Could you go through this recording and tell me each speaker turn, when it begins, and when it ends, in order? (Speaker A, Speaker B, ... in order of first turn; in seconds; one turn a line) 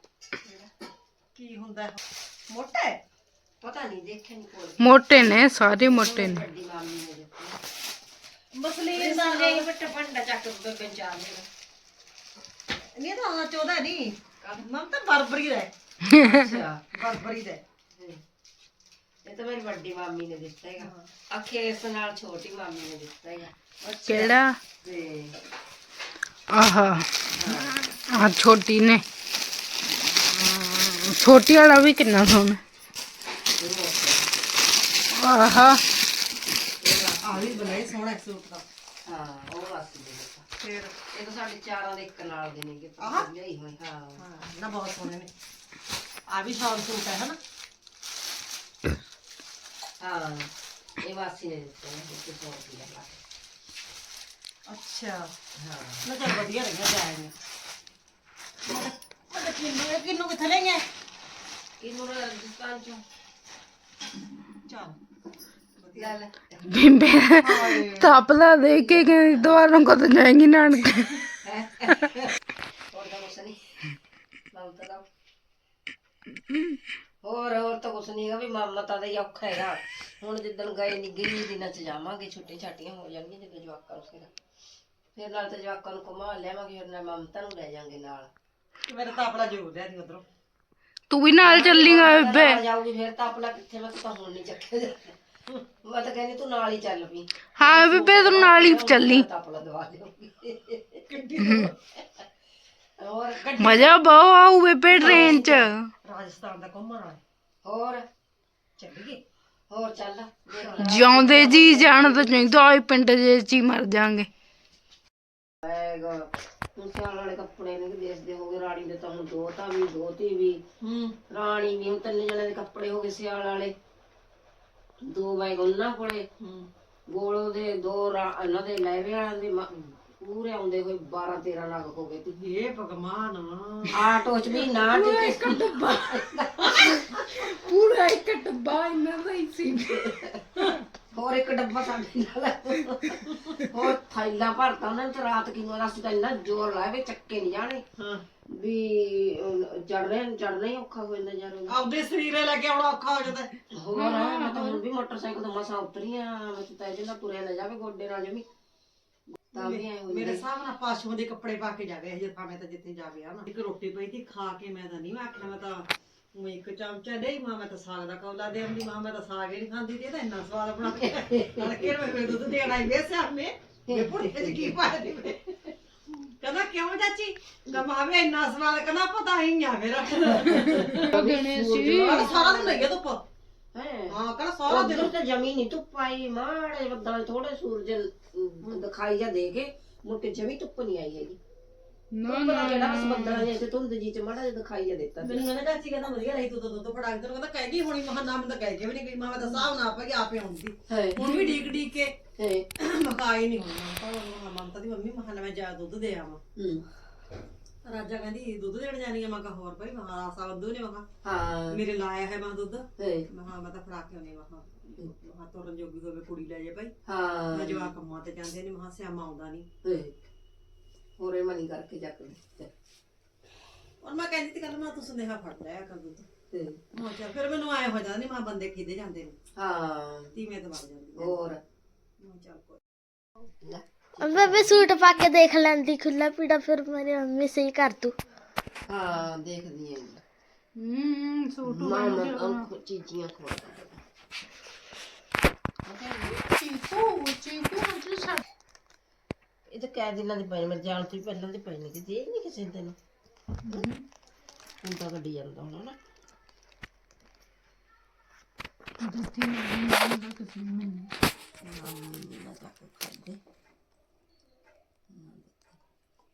Speaker A: 1.4-3.0
Speaker B: 3.6-7.6
Speaker C: 4.8-6.5
Speaker A: 8.6-9.7
Speaker B: 8.9-11.5
Speaker A: 13.0-15.7
Speaker C: 16.0-16.5
Speaker B: 16.2-16.8
Speaker A: 16.9-17.6
Speaker B: 17.9-18.2
Speaker B: 19.2-25.4
Speaker C: 24.1-24.6
Speaker C: 26.5-27.3
Speaker B: 27.3-27.8
Speaker C: 27.9-29.0
Speaker C: 30.1-32.6
Speaker B: 33.6-34.3
Speaker C: 35.1-35.8
Speaker B: 36.8-37.5
Speaker A: 37.2-38.6
Speaker B: 39.0-40.5
Speaker A: 40.6-41.0
Speaker B: 41.1-44.2
Speaker A: 43.0-43.3
Speaker A: 44.2-45.3
Speaker A: 46.3-47.4
Speaker B: 50.0-53.2
Speaker A: 54.7-55.3
Speaker B: 55.6-56.1
Speaker A: 56.0-57.3
Speaker A: 58.7-60.8
Speaker B: 61.8-63.0
Speaker A: 64.7-65.0
Speaker A: 65.8-66.2
Speaker B: 65.9-66.6
Speaker C: 66.7-71.2
Speaker A: 67.4-68.2
Speaker B: 68.7-69.6
Speaker B: 71.4-72.3
Speaker B: 72.9-73.6
Speaker B: 74.5-75.1
Speaker B: 77.2-84.3
Speaker B: 85.1-88.3
Speaker A: 88.9-90.2
Speaker C: 91.1-92.6
Speaker B: 91.4-95.2
Speaker B: 95.8-101.0
Speaker C: 97.6-99.3
Speaker A: 101.1-101.7
Speaker C: 101.4-101.7
Speaker B: 103.0-103.9
Speaker A: 103.5-103.9
Speaker C: 103.6-105.9
Speaker B: 105.0-105.6
Speaker A: 105.0-107.2
Speaker B: 107.6-108.1
Speaker A: 108.8-109.2
Speaker B: 109.7-112.5
Speaker A: 110.6-110.9
Speaker C: 110.8-114.3
Speaker B: 115.6-120.6
Speaker A: 120.8-121.2
Speaker B: 121.3-123.8
Speaker B: 125.0-126.3
Speaker A: 126.4-126.7
Speaker B: 127.1-132.4
Speaker A: 132.3-134.7
Speaker B: 133.9-137.3
Speaker C: 134.8-135.9
Speaker C: 137.3-140.2
Speaker B: 139.9-140.4
Speaker B: 141.1-147.8
Speaker A: 143.3-143.6
Speaker A: 148.0-148.2
Speaker B: 148.5-151.8
Speaker A: 151.7-153.5
Speaker B: 153.7-158.5
Speaker C: 153.9-154.8
Speaker B: 159.5-160.4
Speaker A: 159.6-175.7
Speaker B: 170.8-172.1
Speaker B: 173.9-174.8
Speaker A: 176.4-183.2
Speaker B: 180.4-182.9
Speaker C: 180.5-182.3
Speaker B: 183.7-191.4
Speaker A: 184.1-185.1
Speaker C: 192.1-193.5
Speaker B: 192.3-195.5
Speaker A: 195.2-202.2
Speaker B: 200.9-201.4
Speaker C: 201.2-201.6
Speaker B: 202.4-202.7
Speaker A: 202.8-206.4
Speaker B: 206.6-206.9
Speaker A: 207.8-211.1
Speaker B: 211.2-211.8
Speaker A: 211.7-216.9
Speaker B: 213.0-213.3
Speaker B: 217.1-217.9
Speaker A: 217.5-219.7
Speaker B: 219.8-220.2
Speaker B: 221.2-222.7
Speaker A: 224.0-226.3
Speaker B: 226.5-226.8
Speaker A: 226.9-229.4
Speaker B: 229.6-230.4
Speaker A: 230.3-231.6
Speaker B: 231.2-231.6
Speaker A: 232.2-232.8
Speaker B: 233.6-234.8
Speaker D: 234.2-238.2
Speaker B: 238.9-240.2
Speaker C: 240.8-242.7
Speaker B: 241.7-244.0
Speaker B: 245.8-246.3
Speaker C: 246.2-248.4
Speaker B: 249.7-253.0
Speaker C: 253.7-254.0
Speaker B: 254.8-256.0
Speaker C: 259.0-261.1
Speaker B: 261.6-263.4
Speaker B: 265.1-265.8